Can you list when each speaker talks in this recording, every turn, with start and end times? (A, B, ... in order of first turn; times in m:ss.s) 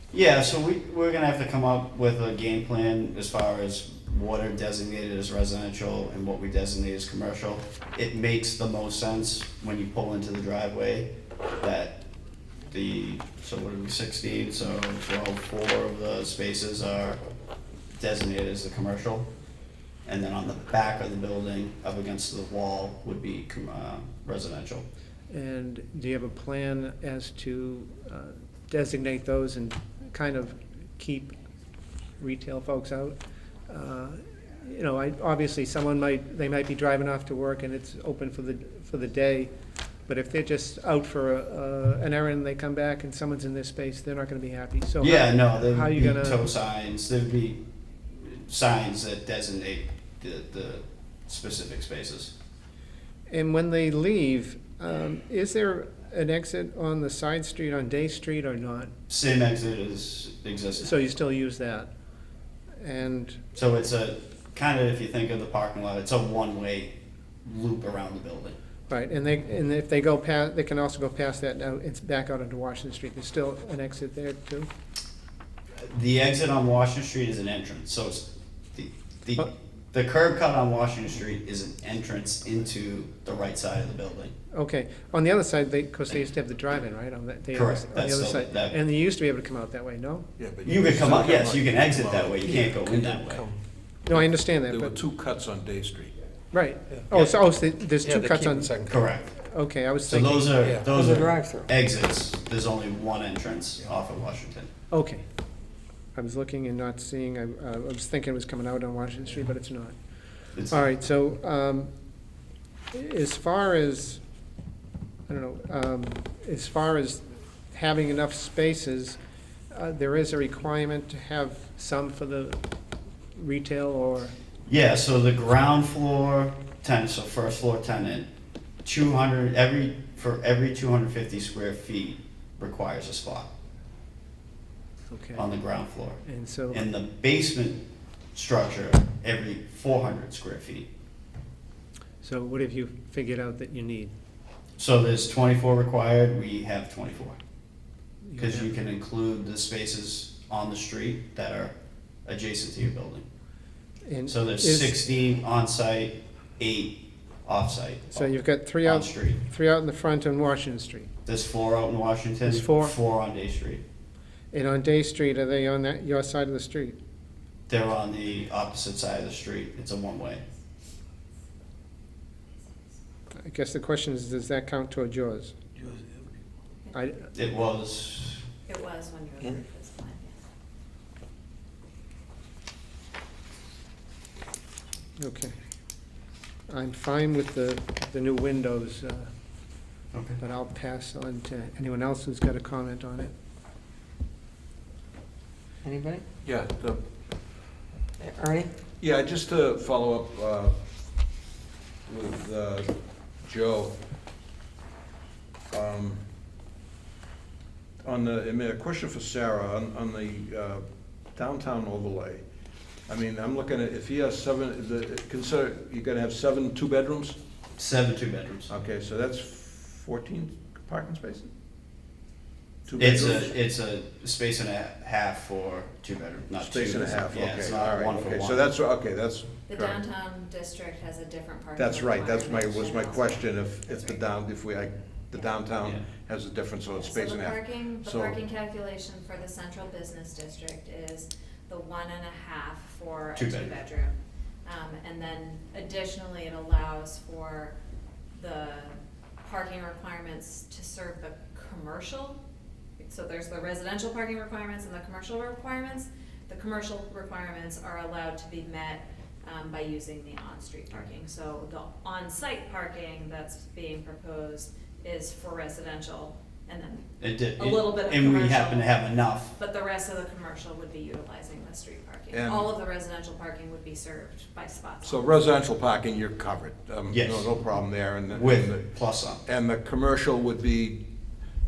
0:00.1-0:12.0 A
0:12.7-0:17.2 A
0:17.9-0:19.3 A
0:20.0-0:24.8 A
0:25.3-0:31.3 B
0:32.2-0:33.2 B
0:33.7-0:39.5 B
0:40.1-0:46.4 B
0:45.0-0:52.3 A
0:53.3-0:58.9 B
0:59.1-1:01.0 A
1:00.8-1:01.9 B
1:02.8-1:03.4 B
1:03.6-1:08.6 A
1:08.9-1:14.7 B
1:15.8-1:24.3 A
1:24.5-1:30.3 B
1:27.5-1:28.8 A
1:30.4-1:32.5 C
1:30.6-1:33.5 A
1:32.5-1:33.6 D
1:34.0-1:35.0 B
1:34.1-1:36.2 C
1:36.5-1:40.8 B
1:37.1-1:37.4 A
1:38.0-1:39.0 D
1:38.9-1:39.4 A
1:40.1-1:44.7 A
1:40.6-1:41.7 D
1:44.9-1:45.2 B
1:46.2-1:50.0 B
1:50.5-1:51.9 B
1:50.6-1:50.9 A
1:52.9-1:54.2 B
1:55.3-1:59.2 B
1:59.7-2:02.6 B
2:03.3-2:04.4 B
2:04.7-2:08.3 A
2:08.8-2:13.5 A
2:15.1-2:15.5 B
2:15.4-2:16.2 A
2:16.2-2:16.9 B
2:16.7-2:20.9 A
2:22.2-2:24.1 B
2:24.8-2:27.4 A
2:28.2-2:28.7 B
2:28.4-2:31.7 A
2:32.2-2:33.2 A
2:34.1-2:35.0 B
2:34.3-2:39.4 A
2:38.1-2:41.1 B
2:41.3-2:43.8 A
2:42.5-2:43.0 B
2:44.5-2:47.0 B
2:47.7-2:50.4 A
2:53.3-2:55.6 B
2:56.9-2:57.3 B
2:57.3-2:58.4 A
2:58.7-3:00.4 E
3:05.2-3:05.6 B
3:06.7-3:09.3 B
3:10.1-3:10.4 A
3:10.4-3:13.3 B
3:15.8-3:16.2 D
3:16.4-3:17.0 C
3:18.2-3:18.7 D
3:19.0-3:20.8 C
3:22.1-3:24.0 C
3:25.7-3:26.2 C
3:28.0-3:32.5 C
3:33.1-3:37.4 C
3:37.8-3:38.7 A
3:38.7-3:41.5 C
3:42.9-3:43.5 C
3:43.0-3:48.7 A
3:46.6-3:50.0 C
3:49.7-3:54.2 E
3:51.8-3:58.4 C
3:57.0-4:07.8 E
4:03.4-4:03.8 A
4:08.4-4:12.4 E
4:13.0-4:29.0 E
4:27.2-4:29.5 A
4:29.6-4:35.4 E
4:32.3-4:32.7 C
4:35.0-4:38.9 C
4:37.1-4:37.5 A
4:38.3-4:39.4 A
4:39.5-4:41.1 C